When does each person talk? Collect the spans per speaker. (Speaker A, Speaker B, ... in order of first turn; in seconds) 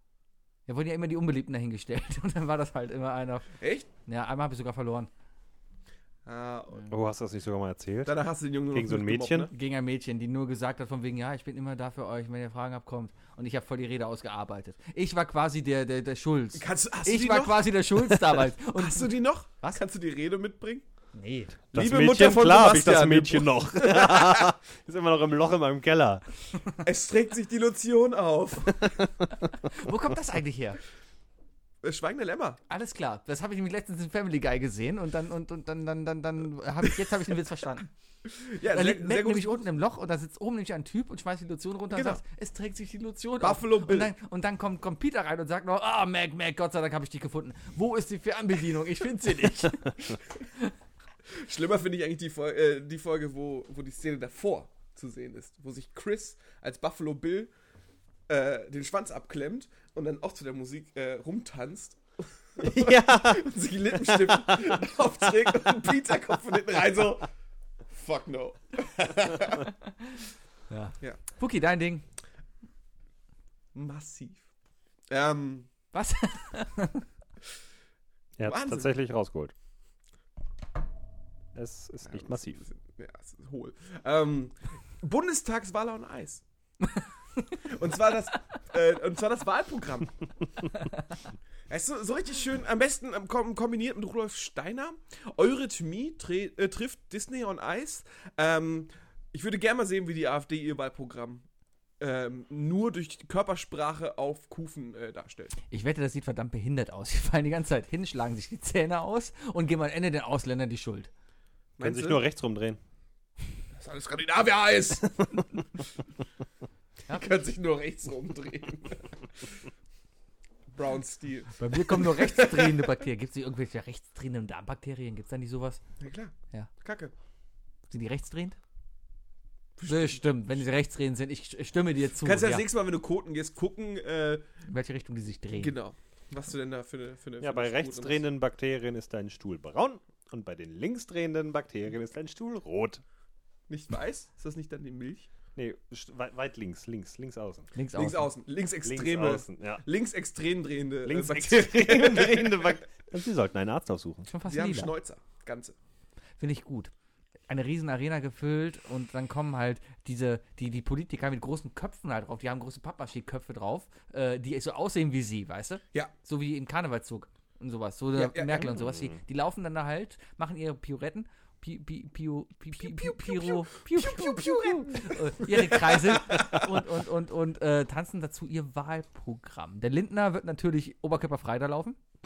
Speaker A: 0.7-3.5, 4.1-5.1, 9.5-19.8, 21.1-21.6, 29.5-30.8, 32.7-37.9, 38.7-50.7, 70.7-72.0, 75.9-77.1, 105.7-111.1, 121.6-125.8, 127.9-128.6, 129.9-132.7, 134.7-135.7, 147.8-148.3, 154.3-154.9, 156.4-156.9, 157.5-182.0
Speaker B: 3.6-3.9, 6.3-6.9, 8.1-9.5, 16.6-20.8, 21.7-24.5, 26.8-29.0, 31.8-32.6, 38.4-39.6, 41.9-42.2, 43.4-44.1, 51.3-57.5, 58.3-62.0, 62.5-67.3, 67.9-69.7, 73.7-74.4, 75.1-75.7, 78.5-78.9, 82.1-86.4, 87.6-90.1, 91.7-101.4, 102.0-105.6, 111.8-112.2, 113.7-115.4, 117.1-119.4, 120.7-122.9, 126.0-127.1, 129.8-130.4, 132.2-134.4, 135.6-138.2, 143.7-145.3, 147.9-152.8, 154.5-155.8, 168.2-168.8, 172.9-176.7
Speaker C: 6.9-8.2, 8.7-9.5, 21.7-26.2, 62.6-64.8, 65.3-65.7, 78.4-79.5, 81.5-82.6, 111.8-112.8, 137.4-143.0, 145.6-147.7, 148.8-149.8, 151.1-154.3, 168.9-169.2